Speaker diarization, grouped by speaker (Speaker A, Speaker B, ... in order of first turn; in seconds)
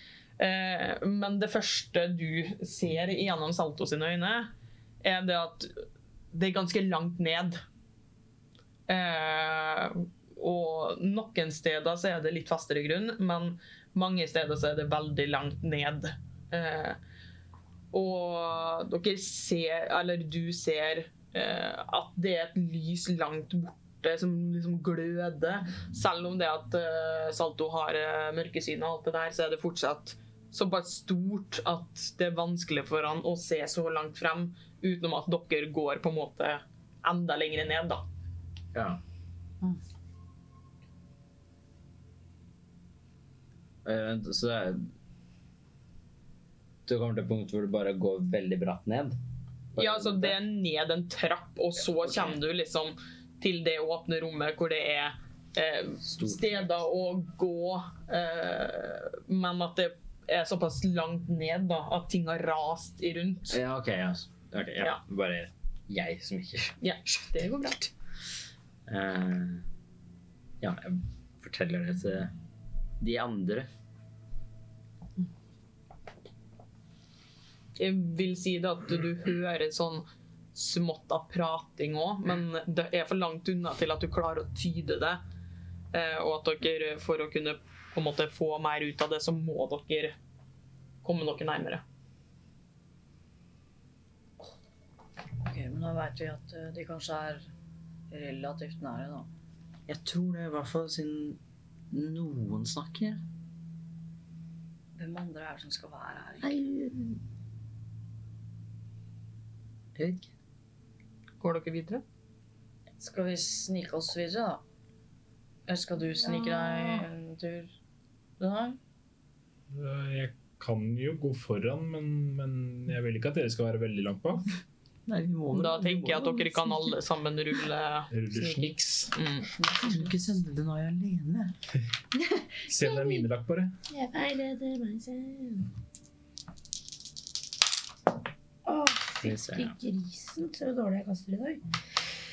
Speaker A: 0.4-4.5, 5.0-7.6, 8.9-17.0, 17.9-38.0, 49.8-63.6, 66.8-67.9, 77.8-85.2, 85.9-90.2, 91.0-91.8, 111.4-112.0, 125.5-129.8
Speaker B: 38.7-39.0, 43.9-44.9, 46.9-49.2, 49.7-50.4, 52.0-52.4, 56.0-56.7, 63.5-66.8, 68.9-69.7, 70.6-72.3, 73.0-73.7, 99.9-101.4, 101.9-103.2, 106.4-107.2, 110.0-110.3, 125.1-126.9, 129.7-131.6, 139.2-139.8
Speaker C: 95.4-97.5, 98.1-99.3, 105.0-106.5, 113.0-114.6, 115.7-117.7, 118.4-118.8
Speaker D: 119.7-124.5, 128.1-129.1, 132.7-133.7
Speaker E: 132.8-133.2, 133.9-135.7, 138.7-141.6